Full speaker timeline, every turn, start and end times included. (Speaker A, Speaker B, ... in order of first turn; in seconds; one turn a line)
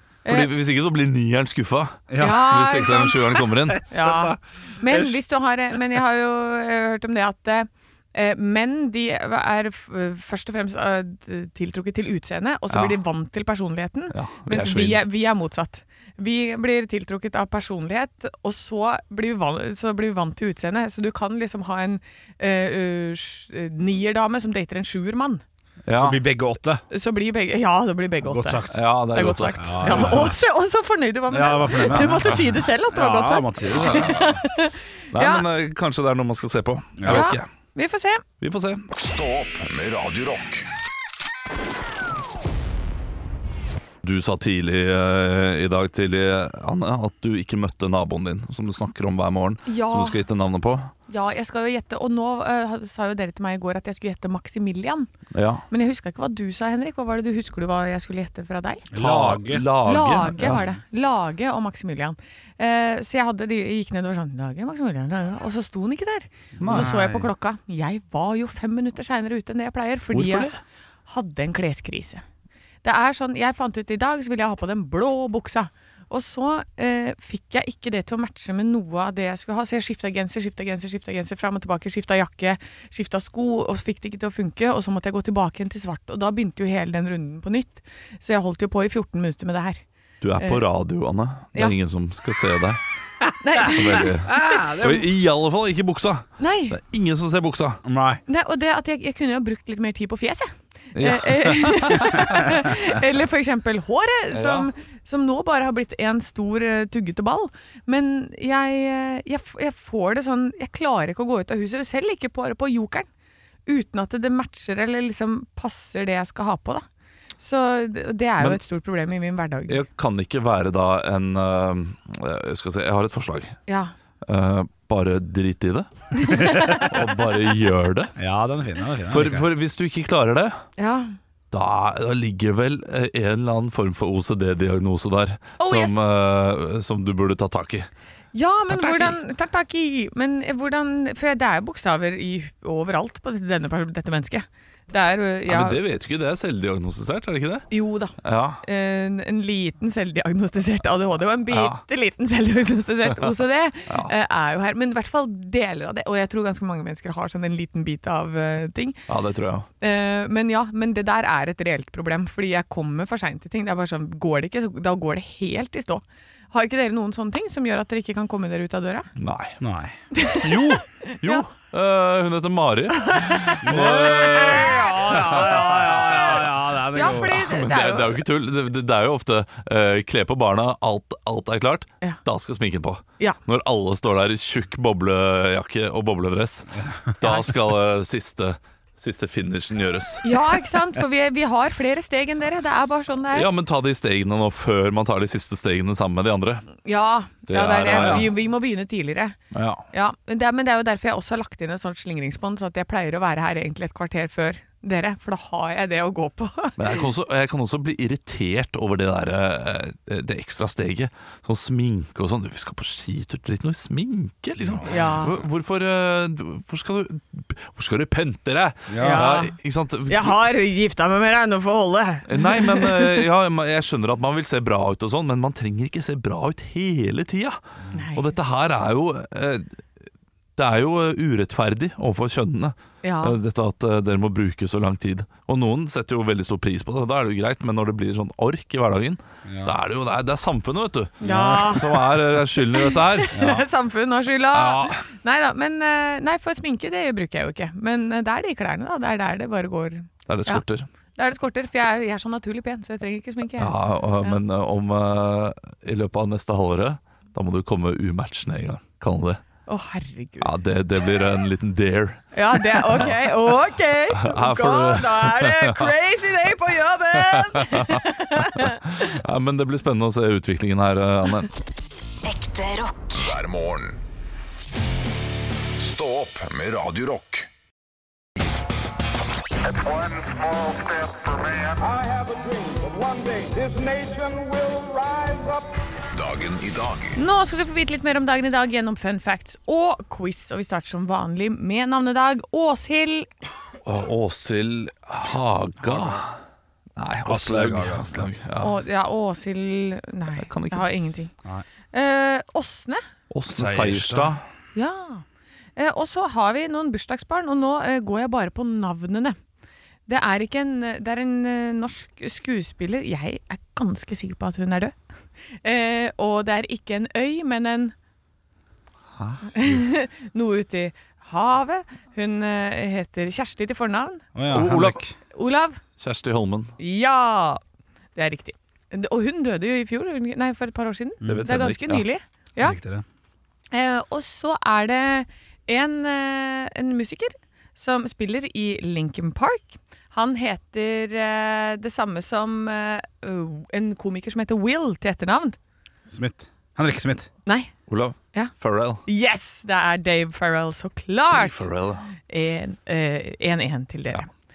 Speaker A: 0.2-0.5
Speaker B: 0.2-3.8
Speaker C: 2.1-2.5
Speaker A: 2.2-25.4
Speaker C: 3.7-5.2
Speaker B: 12.7-13.0
Speaker B: 14.1-15.0
Speaker B: 25.9-26.2
Speaker C: 25.9-26.8
Speaker A: 26.9-35.5
Speaker C: 28.2-28.8
Speaker B: 28.7-30.3
Speaker C: 29.6-30.3
Speaker C: 31.3-34.1
Speaker B: 33.7-34.4
Speaker B: 35.1-37.5
Speaker C: 37.0-37.3
Speaker A: 37.0-38.2
Speaker B: 38.4-38.9
Speaker D: 38.9-40.6
Speaker B: 44.0-50.9
Speaker A: 49.6-50.2
Speaker A: 51.1-55.1
Speaker B: 55.3-55.6
Speaker A: 55.7-58.9
Speaker C: 58.9-59.7
Speaker B: 59.0-60.6
Speaker A: 59.8-70.5
Speaker B: 66.6-66.9
Speaker C: 66.6-67.3
Speaker B: 70.1-70.6
Speaker A: 71.1-72.2
Speaker A: 72.8-89.8
Speaker B: 90.2-92.8
Speaker A: 93.4-94.3
Speaker B: 93.7-97.8
Speaker C: 94.0-95.1
Speaker A: 96.4-96.8
Speaker C: 97.8-98.2
Speaker A: 98.3-113.1
Speaker B: 101.0-102.7
Speaker B: 104.3-104.7
Speaker A: 113.7-116.9
Speaker A: 117.4-119.8
Speaker B: 119.7-123.6
Speaker A: 123.7-123.9
Speaker B: 124.2-125.9
Speaker A: 126.2-126.9
Speaker C: 126.4-126.8
Speaker B: 126.7-128.1
Speaker C: 128.2-129.5
Speaker B: 129.1-130.6
Speaker A: 130.8-131.2
Speaker B: 131.5-137.9
Speaker A: 135.6-136.1
Speaker A: 138.3-145.8
Speaker B: 138.7-139.2
Speaker B: 145.5-147.7
Speaker A: 147.7-159.0
Speaker B: 148.2-148.6
Speaker B: 151.5-151.8
Speaker B: 159.1-159.7
Speaker A: 159.8-169.1
Speaker B: 169.2-169.6
Speaker C: 169.6-170.0
Speaker A: 170.1-171.4
Speaker B: 170.3-176.4
Speaker A: 173.0-178.2
Speaker C: 173.6-177.4
Speaker B: 177.2-190.3
Speaker A: 187.2-187.5
Speaker A: 190.2-193.5
Speaker B: 193.3-196.7
Speaker A: 196.8-199.4
Speaker B: 197.5-198.3
Speaker C: 197.9-198.3
Speaker B: 199.5-199.8
Speaker A: 199.9-207.0
Speaker B: 206.8-220.4
Speaker C: 214.6-214.9
Speaker A: 214.9-215.3
Speaker C: 218.9-219.3
Speaker A: 219.0-219.5
Speaker A: 220.1-223.2
Speaker B: 222.3-227.6
Speaker A: 227.9-228.2
Speaker B: 228.1-229.8
Speaker B: 230.6-243.5
Speaker A: 233.0-233.3
Speaker C: 239.5-239.7
Speaker A: 241.2-250.6
Speaker C: 241.2-241.8
Speaker C: 243.4-243.6
Speaker B: 244.5-245.0
Speaker B: 250.2-250.9
Speaker A: 251.2-254.4
Speaker B: 253.6-259.4
Speaker A: 259.7-261.0
Speaker B: 260.4-263.5
Speaker A: 262.3-269.1
Speaker B: 264.1-265.9
Speaker B: 267.1-271.5
Speaker E: 272.2-273.3
Speaker D: 273.1-274.0
Speaker D: 275.8-277.5
Speaker D: 280.2-281.8
Speaker E: 282.4-285.5
Speaker D: 286.1-287.1
Speaker A: 287.1-293.3
Speaker B: 293.9-296.4
Speaker C: 295.8-296.2
Speaker B: 297.0-298.8
Speaker C: 297.2-298.3
Speaker A: 298.6-301.3
Speaker B: 300.4-300.9
Speaker A: 301.9-303.0
Speaker B: 303.3-304.4
Speaker C: 303.5-304.4
Speaker A: 304.8-305.2
Speaker A: 305.8-309.4
Speaker A: 310.1-315.0
Speaker A: 315.6-317.9
Speaker A: 319.5-324.2
Speaker C: 324.4-325.1
Speaker B: 324.5-325.0
Speaker A: 325.3-325.8
Speaker B: 326.0-326.7
Speaker A: 326.8-327.6
Speaker A: 328.1-332.8
Speaker B: 331.2-332.0
Speaker C: 332.6-333.0
Speaker A: 333.7-345.6
Speaker C: 346.1-347.3
Speaker B: 347.9-349.0
Speaker A: 349.1-351.7
Speaker B: 351.3-352.1
Speaker A: 352.3-354.3